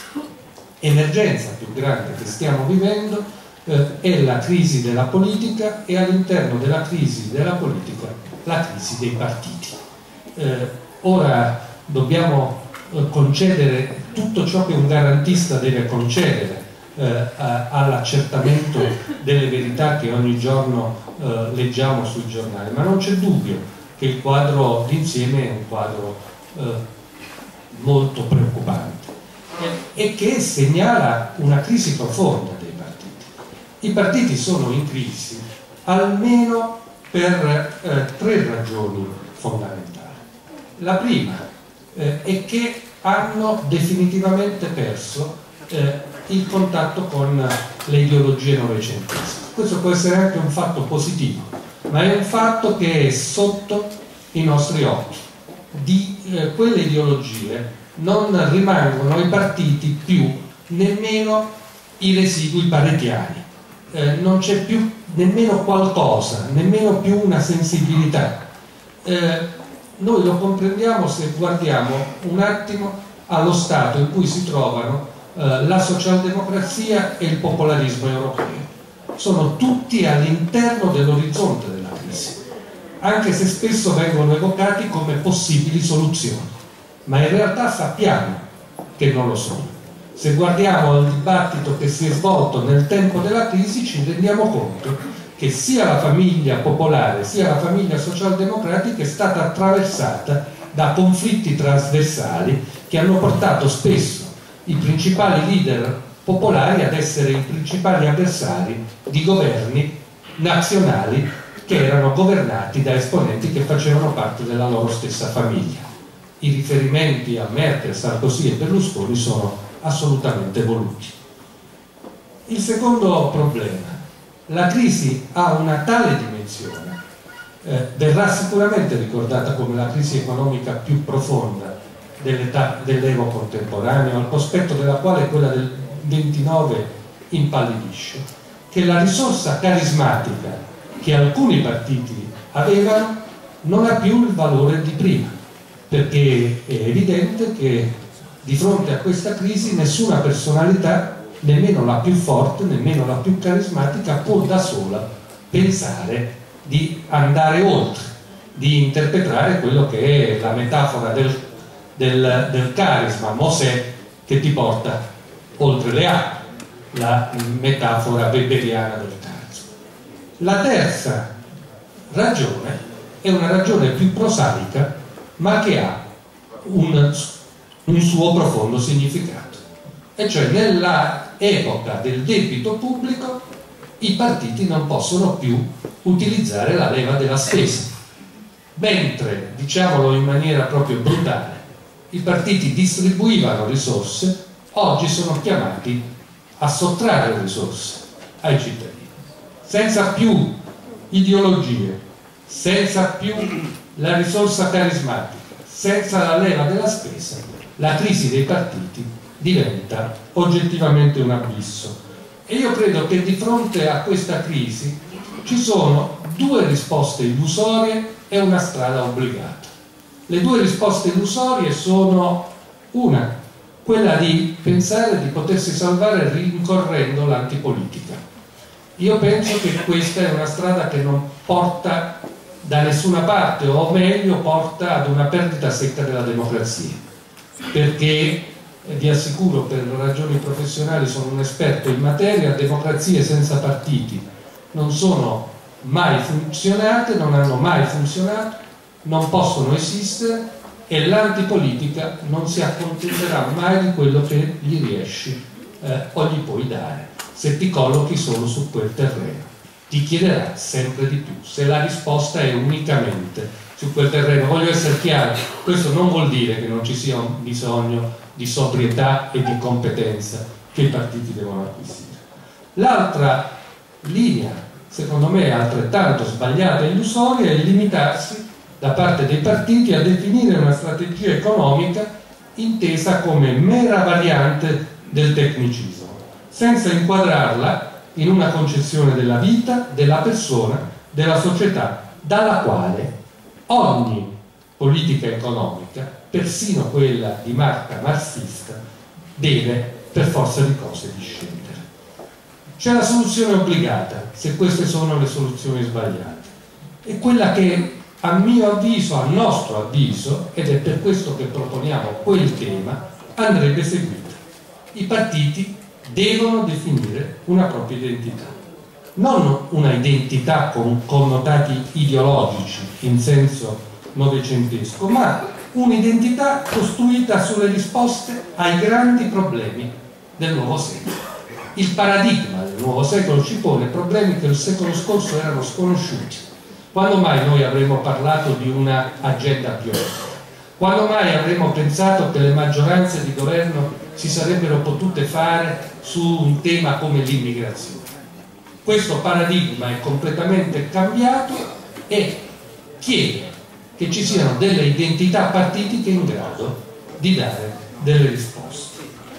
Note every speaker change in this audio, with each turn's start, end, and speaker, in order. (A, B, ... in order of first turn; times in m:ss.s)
0:00.8-0:09.8 A
0:10.4-0:26.8 A
0:27.7-0:40.2 A
0:40.8-0:41.4 A
0:41.9-1:08.4 A
1:09.0-1:09.5 A
1:10.0-1:22.4 A
1:23.0-1:26.5 A
1:27.1-1:28.4 A
1:29.0-1:55.9 A
1:56.4-2:01.2 A
2:02.5-2:07.0 A
2:07.6-2:25.3 A
2:25.9-2:41.4 A
2:42.0-2:45.0 A
2:45.6-2:49.7 A
2:50.4-2:51.3 A
2:52.1-2:56.0 A
2:56.6-2:57.4 A
2:57.9-2:59.6 A
3:00.2-3:03.4 A
3:04.0-3:07.9 A
3:08.8-3:16.0 A
3:16.6-3:19.1 A
3:19.6-3:20.5 A
3:21.1-3:32.0 A
3:32.5-3:39.7 A
3:40.3-3:43.3 A
3:43.8-3:48.2 A
3:49.0-3:57.0 A
3:57.7-4:32.2 A
4:32.8-4:53.1 A
4:53.7-4:58.8 A
4:59.4-5:01.8 A
5:02.8-5:06.5 A
5:07.0-5:14.4 A
5:14.9-5:18.6 A
5:19.2-5:31.1 A
5:31.8-5:48.0 A
5:48.8-5:52.4 A
5:53.0-5:59.0 A